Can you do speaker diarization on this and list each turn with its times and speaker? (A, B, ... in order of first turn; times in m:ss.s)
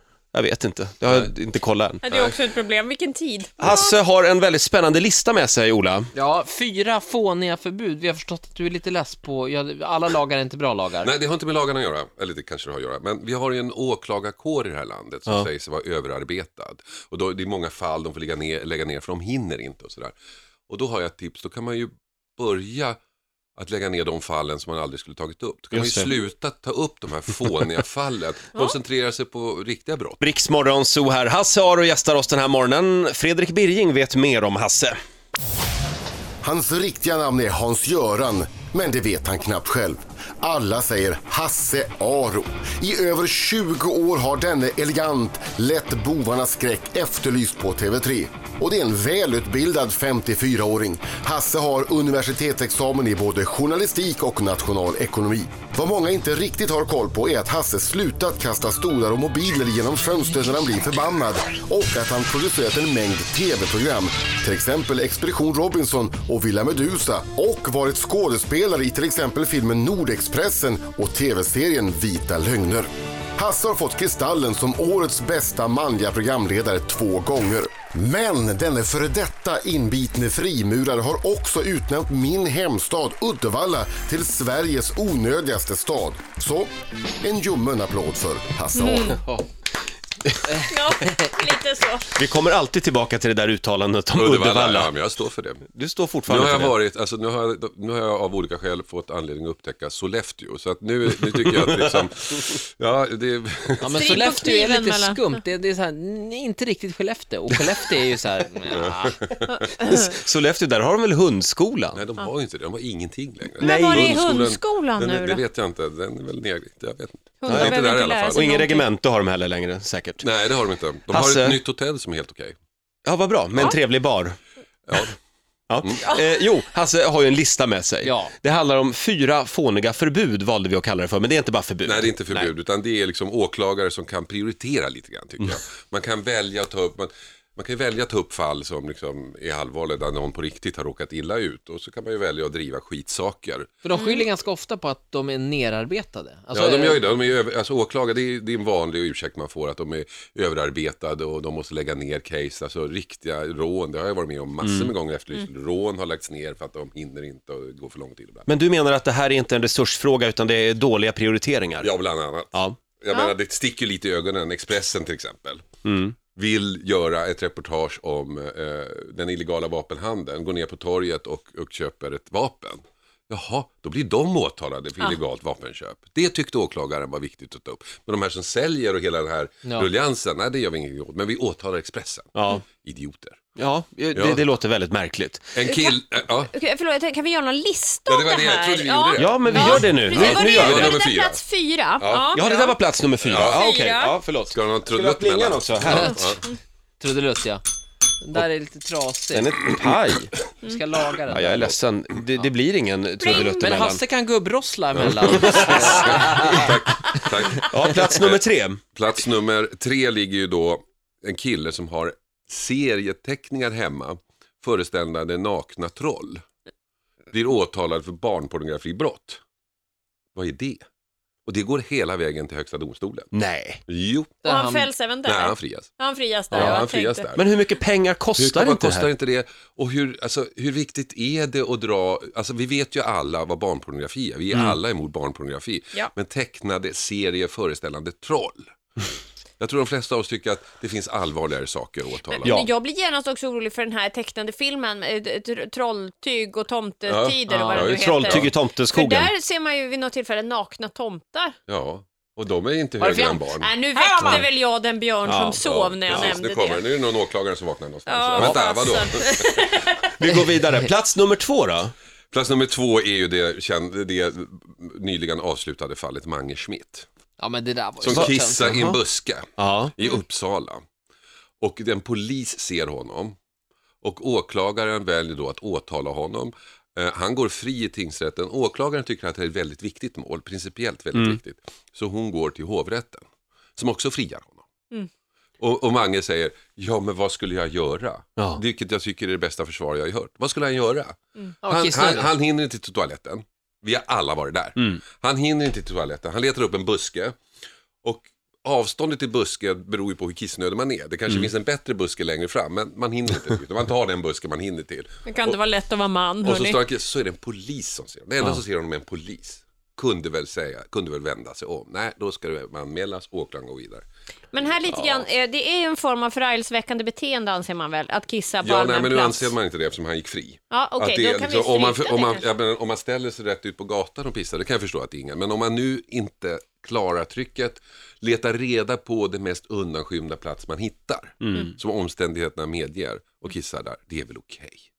0:00.3-0:02.0 A
0:02.0-0:04.0 B
0:02.1-0:02.4 C
0:03.6-0:06.1 A
0:06.1-0:11.1 D
0:11.0-0:20.1 C
0:20.7-0:23.0 C
0:23.6-0:30.2 C
0:25.7-0:26.1 A
0:27.4-0:27.7 D
0:30.2-0:35.0 A
0:36.4-1:26.7 E
1:27.2-1:29.2 E
1:28.7-1:29.2 B
1:30.6-1:32.1 B
1:32.2-1:34.9 A
1:34.1-1:35.6 C
1:35.7-1:36.8 A
1:36.3-1:44.3 C
1:41.1-1:41.9 D
1:43.8-1:49.3 D
1:44.0-1:45.3 B
1:48.7-1:49.4 C
1:49.6-1:50.1 B
1:49.8-1:52.0 A
1:52.0-1:57.0 C
1:53.2-1:54.0 D
1:53.6-1:55.4 B
1:53.6-1:54.2 A
1:56.1-1:57.6 D
1:57.4-1:58.9 B
1:57.5-2:00.2 A
1:57.5-1:58.4 C
2:00.3-2:02.1 D
2:00.8-2:01.2 C
2:01.1-2:01.6 A
2:02.1-2:02.5 C
2:03.0-2:04.4 A
2:05.7-2:12.1 A
2:08.0-2:08.3 D
2:11.9-2:23.7 C
2:12.0-2:12.5 D
2:23.8-2:27.3 D
2:23.9-2:24.3 B
2:26.5-2:38.4 C
2:34.5-2:35.4 D
2:38.5-2:41.9 A
2:41.8-2:45.5 C
2:43.5-2:44.0 D
2:44.8-2:45.0 D
2:45.8-2:46.1 A
2:46.4-2:52.8 C
2:53.3-3:02.3 C
2:59.6-3:00.0 D
3:01.3-3:01.6 D
3:02.3-3:02.6 A
3:02.8-3:03.2 C
3:03.6-3:05.5 A
3:04.1-3:04.4 C
3:05.6-3:06.5 C
3:05.7-3:12.7 B
3:08.1-3:09.5 C
3:08.6-3:11.0 D
3:09.2-3:11.0 A
3:10.6-3:11.4 C
3:12.0-3:12.4 C
3:12.3-3:16.2 A
3:13.3-3:13.6 C
3:13.4-3:14.2 B
3:14.5-3:16.2 C
3:15.5-3:16.4 D
3:16.2-3:16.6 B
3:17.0-3:17.6 D
3:18.2-3:19.6 D
3:19.3-3:20.3 A
3:20.6-3:21.8 D
3:21.3-3:24.0 A
3:23.2-3:23.8 B
3:23.5-3:28.2 D
3:25.1-3:26.9 C
3:25.2-3:26.4 A
3:27.0-3:27.7 B
3:27.4-3:28.3 C
3:27.6-3:28.8 A
3:29.0-3:36.0 C
3:35.7-3:36.2 D
3:37.3-3:38.0 D
3:37.4-3:39.3 C
3:40.4-3:40.8 C
3:41.5-3:43.3 C
3:43.3-3:43.8 A
3:43.9-3:44.4 C
3:44.4-3:44.9 D
3:44.4-3:47.4 B
3:45.2-3:45.9 C
3:46.5-3:49.1 A
3:46.6-3:47.4 C
3:48.4-3:58.6 C
3:48.7-3:49.1 D
3:53.0-3:53.6 D
3:56.4-3:57.0 D
3:59.6-4:02.5 C
4:01.6-4:02.2 D
4:02.3-4:11.6 B
4:02.4-4:02.7 A
4:07.0-4:08.4 C
4:07.5-4:08.4 D
4:07.7-4:09.3 A
4:11.7-4:12.0 C
4:12.4-4:14.4 D
4:12.7-4:13.7 C
4:13.5-4:16.9 B
4:15.2-4:16.3 A
4:15.6-4:19.6 C
4:16.0-4:16.4 D
4:18.1-4:20.3 B
4:18.3-4:18.8 D
4:20.2-4:21.9 A
4:22.3-4:27.0 C
4:27.4-4:29.2 D
4:28.0-4:29.4 C
4:28.0-4:28.7 A
4:29.6-4:29.9 A
4:30.0-4:30.8 C
4:31.6-4:33.3 C
4:34.0-4:43.1 C
4:38.7-4:39.3 D
4:39.9-4:41.3 D
4:41.1-4:41.4 A
4:42.8-4:43.0 D
4:43.8-4:44.4 C
4:43.8-4:44.6 D
4:45.6-4:51.1 C
4:51.6-4:52.5 D
4:51.7-4:57.3 C
4:58.0-5:05.5 C
5:03.3-5:04.8 D
5:05.2-5:06.8 B
5:06.4-5:09.4 C
5:08.3-5:08.6 D
5:10.0-5:14.0 C
5:10.3-5:13.9 D
5:14.5-5:19.5 B
5:18.6-5:20.2 C
5:19.3-5:20.5 D
5:20.7-5:22.5 B
5:21.0-5:34.8 C
5:31.4-5:31.7 A